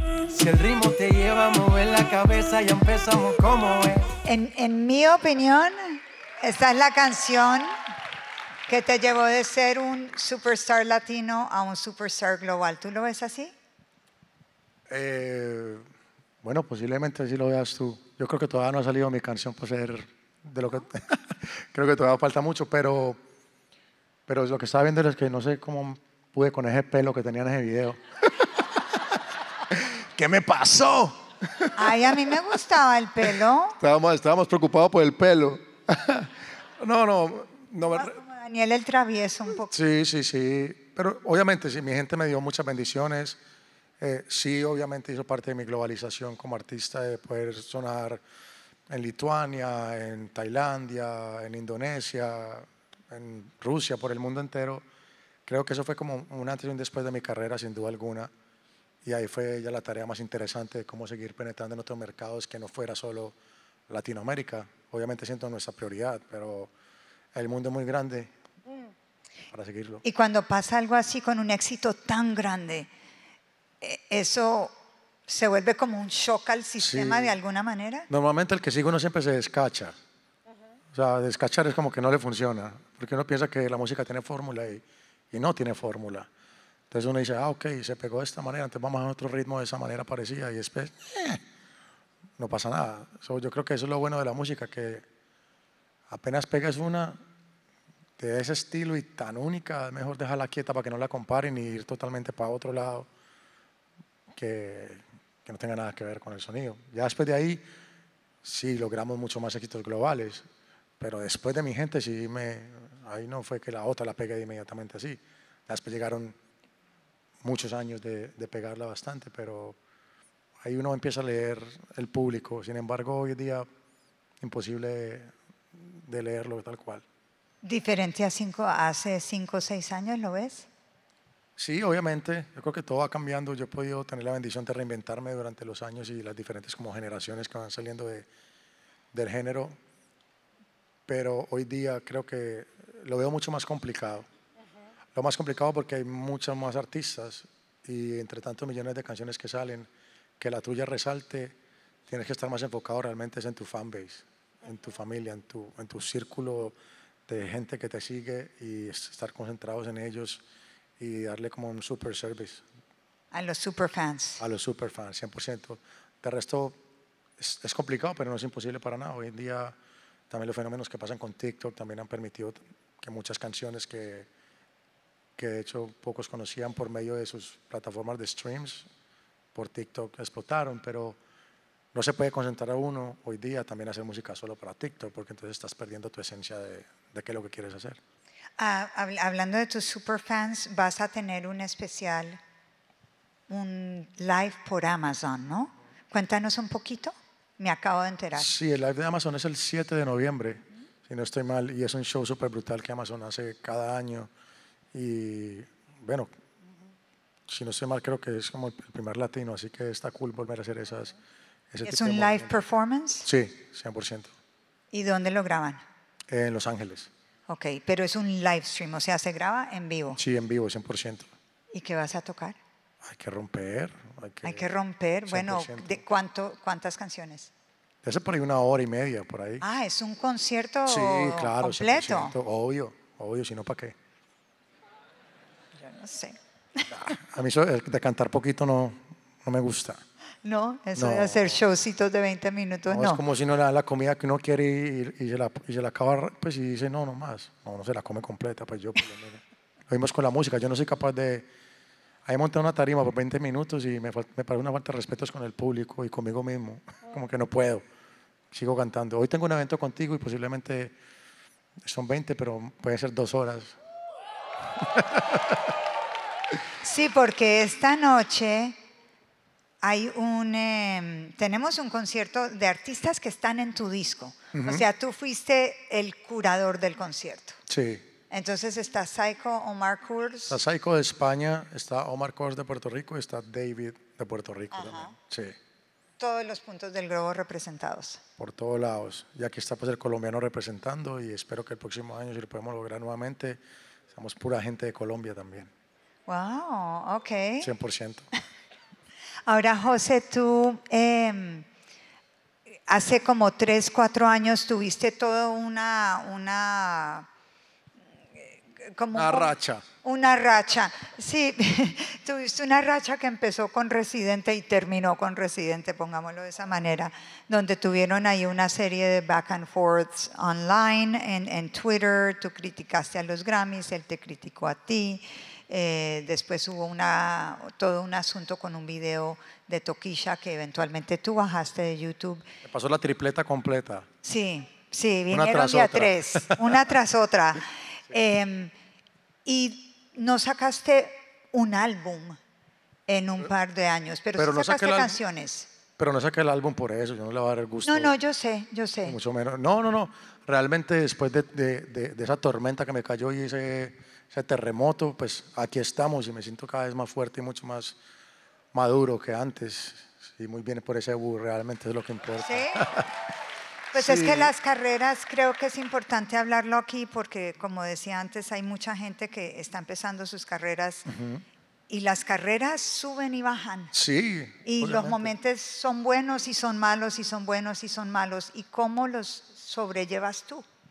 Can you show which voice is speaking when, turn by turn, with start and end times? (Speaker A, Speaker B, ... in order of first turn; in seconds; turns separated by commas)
Speaker A: 0.3-4.1, Speaker B: 4.2-7.8, Speaker B: 8.7-13.5, Speaker C: 14.9-15.8, Speaker C: 16.4-23.2, Speaker C: 24.3-28.5, Speaker C: 29.7-31.8, Speaker B: 31.8-33.8, Speaker C: 33.8-38.1, Speaker B: 37.9-39.7, Speaker C: 39.7-43.4, Speaker C: 44.0-48.2, Speaker C: 48.9-54.8, Speaker C: 55.5-58.3, Speaker C: 59.0-63.4, Speaker C: 63.9-66.7, Speaker C: 67.3-68.3, Speaker C: 69.5-70.0, Speaker B: 70.0-72.9, Speaker B: 73.8-74.7, Speaker B: 75.3-78.1, Speaker C: 76.8-77.3, Speaker C: 78.1-79.9, Speaker C: 80.9-86.3, Speaker C: 86.9-91.4, Speaker C: 92.4-95.0, Speaker C: 96.1-97.2, Speaker C: 98.2-103.1, Speaker C: 104.3-107.6, Speaker C: 108.4-110.4, Speaker C: 111.0-116.3, Speaker C: 117.4-119.8, Speaker C: 120.6-123.7, Speaker C: 124.4-127.0, Speaker B: 127.6-130.7, Speaker C: 131.6-138.3, Speaker C: 139.1-139.8, Speaker C: 141.1-144.2, Speaker C: 145.1-149.9, Speaker C: 150.4-151.5, Speaker C: 152.1-156.7, Speaker C: 157.3-160.4, Speaker C: 161.0-162.6, Speaker B: 163.3-164.4, Speaker C: 164.4-166.8, Speaker C: 167.4-169.7, Speaker C: 170.3-174.3, Speaker C: 175.4-178.9, Speaker C: 179.5-181.2, Speaker C: 181.9-188.0, Speaker B: 188.6-192.4, Speaker B: 193.5-198.5, Speaker C: 198.3-204.3, Speaker C: 204.9-206.3, Speaker C: 207.5-211.1, Speaker C: 211.7-212.5, Speaker B: 211.8-213.3, Speaker C: 213.2-214.3, Speaker B: 214.9-215.8, Speaker C: 216.3-217.1, Speaker B: 217.5-220.2, Speaker C: 220.2-221.3, Speaker B: 221.7-222.6, Speaker C: 223.0-224.7, Speaker B: 224.4-227.5, Speaker C: 225.3-226.0, Speaker C: 228.0-229.6, Speaker B: 229.6-232.3, Speaker C: 230.8-233.9, Speaker B: 235.7-237.1, Speaker C: 236.9-240.0, Speaker B: 240.4-243.2, Speaker C: 240.9-241.6, Speaker C: 242.9-251.5, Speaker C: 252.2-257.8, Speaker C: 258.5-260.9, Speaker C: 261.8-263.8, Speaker C: 264.8-265.6, Speaker B: 266.8-268.8, Speaker B: 269.8-277.6, Speaker C: 274.5-274.8, Speaker C: 277.7-278.1, Speaker B: 278.3-280.6, Speaker C: 280.5-285.6, Speaker B: 284.7-285.1, Speaker B: 286.2-288.2, Speaker C: 288.4-293.6, Speaker C: 294.1-295.7, Speaker B: 296.3-297.7, Speaker C: 297.6-298.3, Speaker B: 299.4-301.7, Speaker B: 302.9-307.3, Speaker B: 308.3-332.5, Speaker C: 309.1-309.8, Speaker C: 332.6-334.1, Speaker B: 334.2-338.7, Speaker C: 335.3-336.8, Speaker B: 339.4-342.4, Speaker B: 343.1-345.7, Speaker C: 344.4-345.2, Speaker C: 346.0-348.1, Speaker B: 347.8-349.2, Speaker C: 349.0-358.0, Speaker C: 358.7-363.1, Speaker B: 362.4-362.9, Speaker C: 363.9-364.5, Speaker B: 363.9-371.1, Speaker C: 371.1-371.4, Speaker B: 371.9-373.9, Speaker C: 373.9-375.3, Speaker B: 374.6-380.6